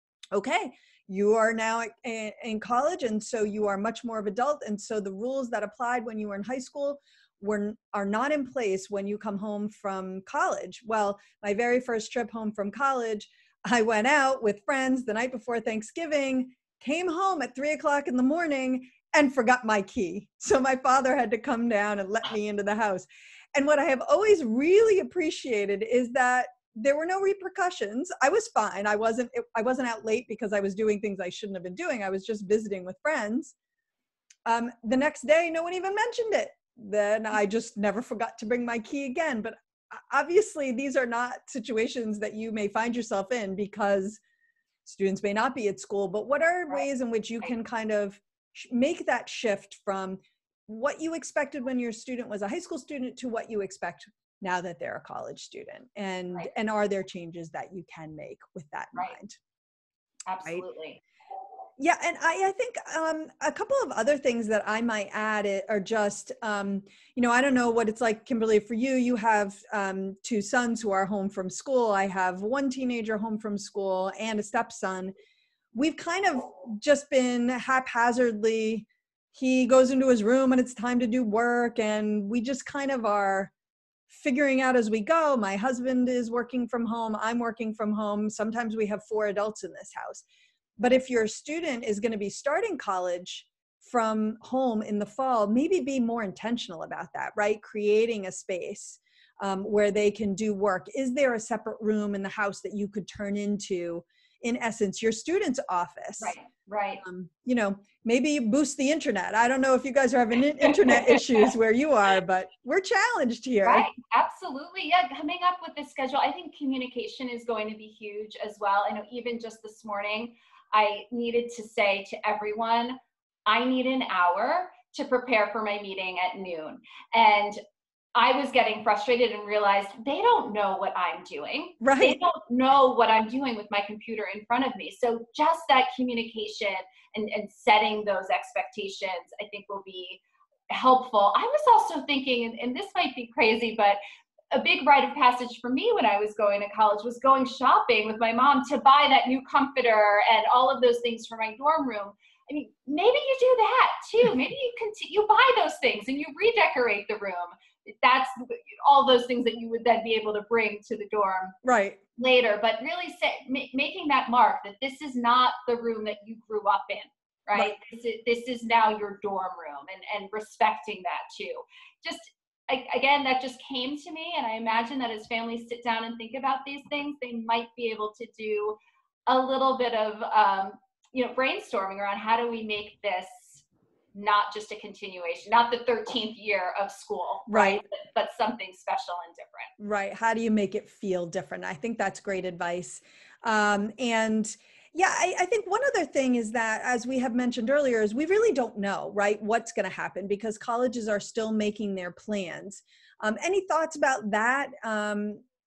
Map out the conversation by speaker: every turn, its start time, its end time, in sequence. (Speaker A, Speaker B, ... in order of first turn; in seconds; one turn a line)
Speaker A: 0.3-33.5
Speaker A: 34.5-44.2
Speaker A: 44.8-59.4
Speaker B: 60.2-61.0
Speaker A: 61.8-75.1
Speaker A: 75.7-83.5
Speaker A: 84.1-90.2
Speaker A: 90.8-106.4
Speaker B: 106.2-107.0
Speaker A: 107.0-113.9
Speaker B: 110.6-111.5
Speaker B: 113.6-127.6
Speaker B: 128.1-144.0
Speaker A: 131.8-132.2
Speaker B: 144.5-161.5
Speaker A: 161.6-162.0
Speaker B: 162.2-189.7
Speaker A: 187.5-187.8
Speaker A: 189.8-205.4